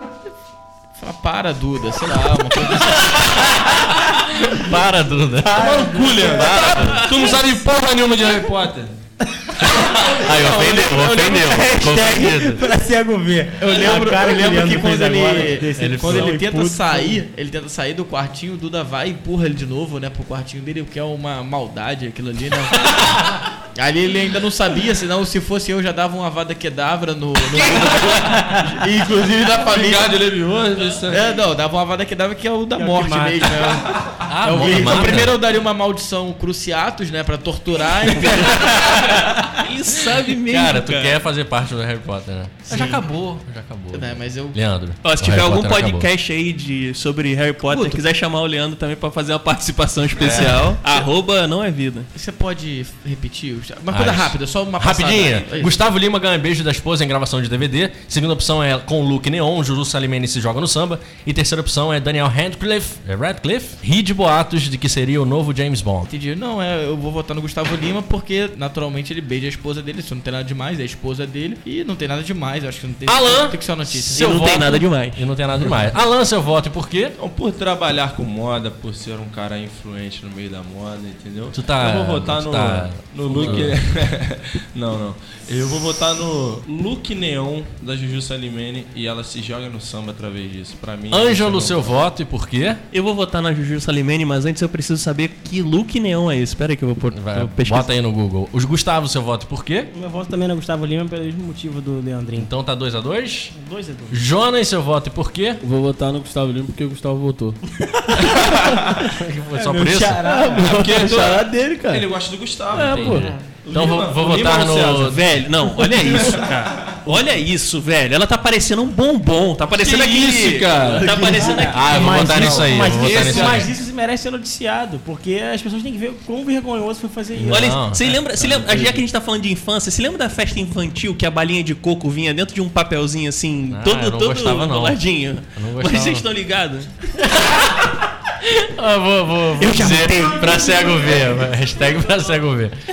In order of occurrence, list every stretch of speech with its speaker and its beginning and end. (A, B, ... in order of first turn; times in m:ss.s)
0:01.0-0:03.7 A
0:03.1-0:03.8 B
0:04.3-0:07.0 B
0:05.4-0:06.4 C
0:05.6-0:09.0 D
0:06.3-0:07.3 E
0:09.6-0:12.6 B
0:09.7-0:12.0 A
0:11.3-0:17.2 C
0:13.6-0:30.2 A
0:15.8-0:16.4 B
0:29.5-0:31.3 D
0:31.1-0:39.6 A
0:32.7-0:33.9 C
0:34.3-0:35.4 B
0:34.8-0:35.2 C
0:38.3-0:39.2 B
0:39.6-0:41.2 E
0:40.5-0:46.1 B
0:42.7-0:43.0 A
0:43.9-0:44.6 A
0:45.0-0:52.1 E
0:47.7-0:48.0 A
0:50.2-0:50.8 B
0:52.1-0:55.8 A
0:53.9-1:06.1 B
1:06.1-1:14.3 A
1:13.0-1:17.1 B
1:14.1-1:15.3 E
1:17.2-1:31.9 D
1:21.5-1:23.7 B
1:23.3-1:23.7 F
1:31.1-1:32.8 B
1:32.9-1:37.9 E
1:37.1-1:39.9 B
1:39.9-1:42.5 C
1:42.4-1:43.5 B
1:43.5-1:44.2 C
1:44.1-1:45.6 B
1:45.6-1:47.6 F
1:48.2-1:49.1 D
1:49.0-1:50.3 B
1:49.6-1:50.8 C
1:50.2-1:52.1 F
1:50.6-1:55.2 D
1:52.7-1:53.3 F
1:52.7-1:55.2 B
1:53.2-1:53.4 C
1:55.0-2:02.4 E
1:55.8-1:57.0 D
1:59.8-2:01.1 D
2:00.7-2:01.7 F
2:01.0-2:07.8 C
2:01.7-2:03.7 B
2:02.1-2:03.7 D
2:07.4-2:09.0 B
2:07.5-2:16.9 E
2:13.7-2:15.0 B
2:15.5-2:16.2 B
2:17.2-2:22.8 B
2:19.7-2:20.6 C